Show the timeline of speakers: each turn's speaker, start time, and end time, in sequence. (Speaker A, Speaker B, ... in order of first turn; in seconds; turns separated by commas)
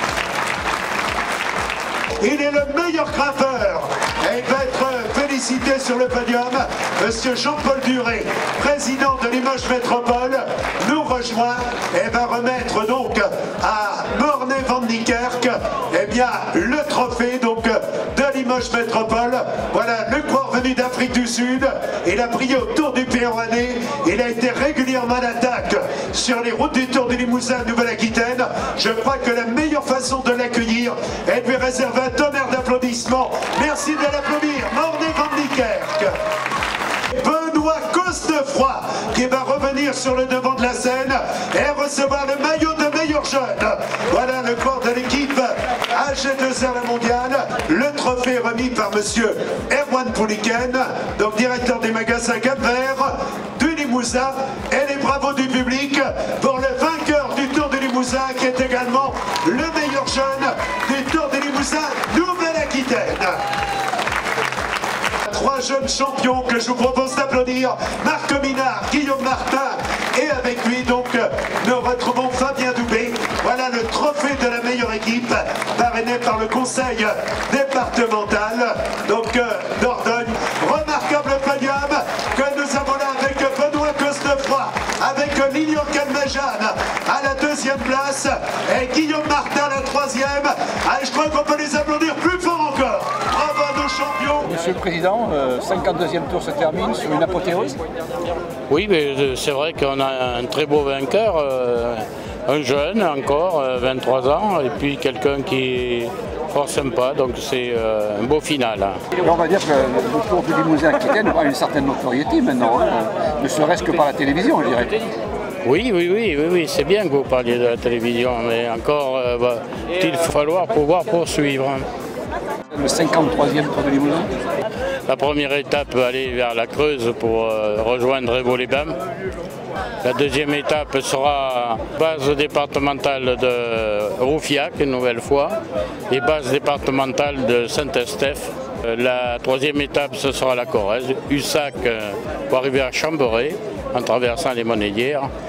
Speaker A: 2.2-36.1, Speaker A: 37.1-63.4, Speaker A: 65.3-94.5, Speaker B: 94.4-97.8, Speaker C: 98.7-109.0, Speaker B: 109.2-114.9, Speaker C: 115.6-121.9, Speaker B: 122.7-124.3, Speaker C: 125.1-128.9, Speaker C: 130.0-135.6, Speaker C: 136.1-145.3